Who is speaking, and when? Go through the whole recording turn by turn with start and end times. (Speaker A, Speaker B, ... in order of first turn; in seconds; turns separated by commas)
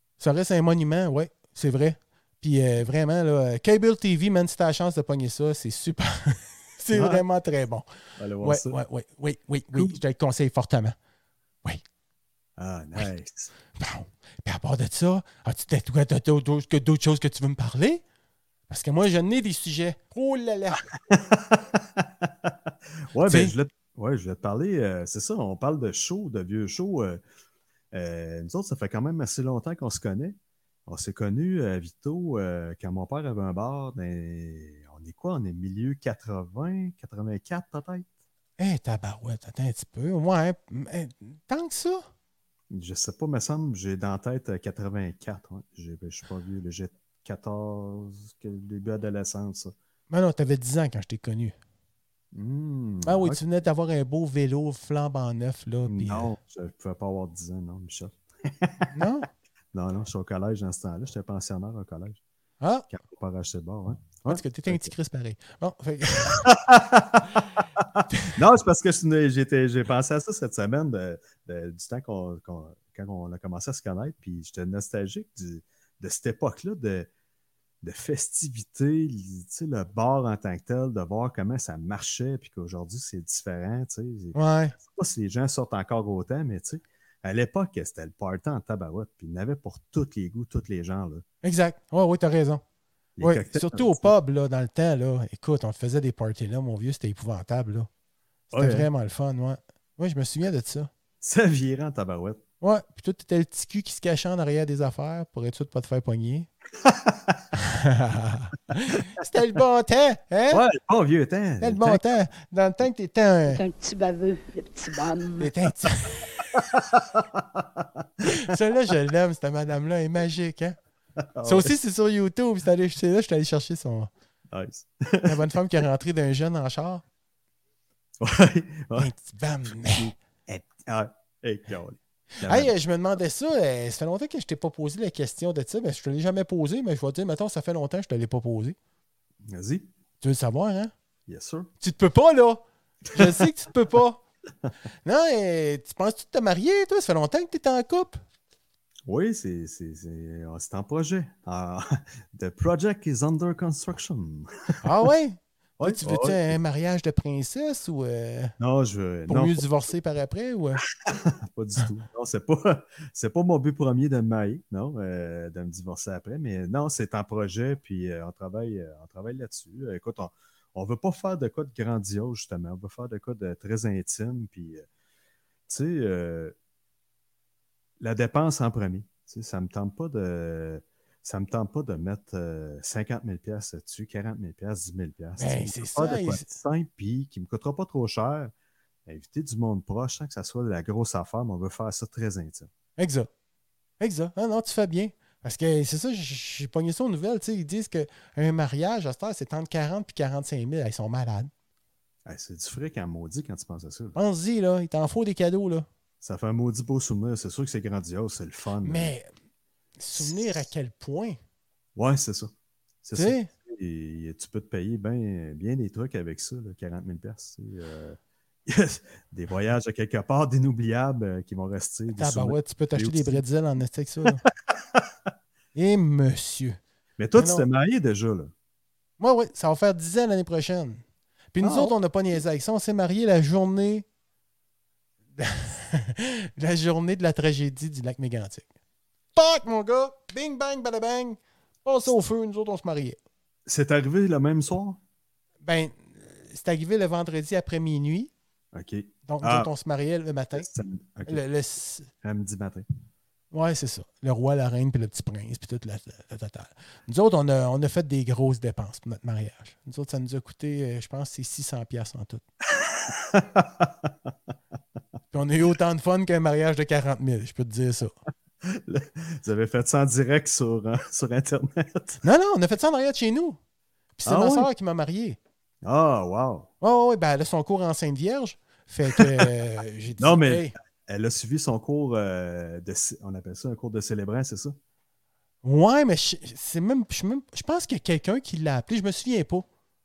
Speaker A: 0.2-7.9, Speaker B: 6.9-7.2, Speaker B: 8.2-8.8, Speaker A: 8.4-10.9, Speaker B: 9.7-10.0, Speaker B: 12.6-13.5, Speaker A: 13.8-18.0, Speaker A: 18.7-20.9, Speaker B: 21.0-27.2, Speaker A: 23.2-23.5, Speaker B: 27.9-30.4, Speaker B: 30.9-38.1, Speaker A: 38.6-42.0, Speaker B: 42.7-49.7, Speaker A: 50.1-51.5, Speaker B: 52.3-53.4, Speaker A: 53.0-56.3, Speaker B: 55.9-58.9, Speaker A: 58.9-59.3, Speaker B: 59.7-62.2, Speaker A: 62.6-62.9, Speaker B: 62.9-64.9, Speaker A: 64.2-66.5, Speaker B: 66.3-77.1, Speaker B: 77.8-91.2, Speaker A: 84.3-84.8, Speaker A: 91.4-92.6, Speaker B: 93.2-94.1, Speaker A: 93.2-97.9, Speaker A: 98.5-100.9, Speaker B: 98.5-98.9, Speaker B: 101.2-102.4, Speaker A: 102.6-106.5, Speaker B: 106.8-107.4, Speaker A: 107.5-110.6, Speaker B: 110.5-112.0, Speaker A: 111.6-113.6, Speaker C: 113.5-115.5, Speaker A: 115.4-116.2, Speaker B: 116.5-118.0, Speaker A: 118.2-120.8, Speaker B: 121.3-121.8, Speaker A: 121.4-124.1, Speaker B: 124.5-125.4, Speaker A: 125.2-127.0, Speaker B: 128.2-129.1, Speaker A: 128.9-130.1, Speaker B: 129.9-132.7, Speaker A: 132.4-138.8, Speaker B: 139.5-139.9, Speaker A: 140.2-140.9, Speaker B: 141.3-141.7, Speaker A: 141.8-144.2, Speaker A: 145.0-148.2, Speaker B: 149.1-154.8, Speaker A: 154.8-158.5, Speaker B: 155.8-156.6, Speaker B: 158.6-159.6, Speaker A: 159.3-160.8, Speaker B: 161.0-174.8, Speaker B: 175.7-176.5, Speaker B: 178.0-188.5, Speaker A: 185.4-186.4, Speaker B: 189.1-192.7, Speaker A: 193.0-193.3, Speaker A: 194.0-201.5, Speaker B: 202.2-204.2, Speaker A: 204.2-205.9, Speaker B: 206.2-209.1, Speaker A: 208.8-209.3, Speaker A: 210.0-211.4, Speaker B: 211.9-223.4, Speaker A: 213.1-213.5, Speaker A: 222.1-224.4, Speaker B: 224.4-225.1, Speaker A: 225.7-226.8, Speaker B: 227.2-228.5, Speaker A: 227.4-227.7, Speaker A: 229.2-231.0, Speaker A: 231.6-234.1, Speaker B: 231.6-231.9, Speaker A: 235.4-238.7, Speaker A: 239.4-243.2, Speaker B: 243.7-245.0, Speaker A: 245.6-248.3, Speaker B: 248.7-249.7, Speaker A: 249.3-250.7, Speaker B: 250.6-251.4, Speaker A: 251.3-252.1, Speaker B: 252.2-252.8, Speaker A: 253.5-262.4, Speaker B: 262.7-264.3, Speaker A: 265.3-268.1, Speaker B: 268.6-272.2, Speaker A: 272.2-273.6, Speaker A: 274.2-275.4, Speaker B: 274.2-274.7, Speaker B: 275.8-276.7, Speaker A: 276.8-280.7, Speaker B: 279.1-279.5, Speaker B: 280.2-284.8, Speaker A: 285.6-289.6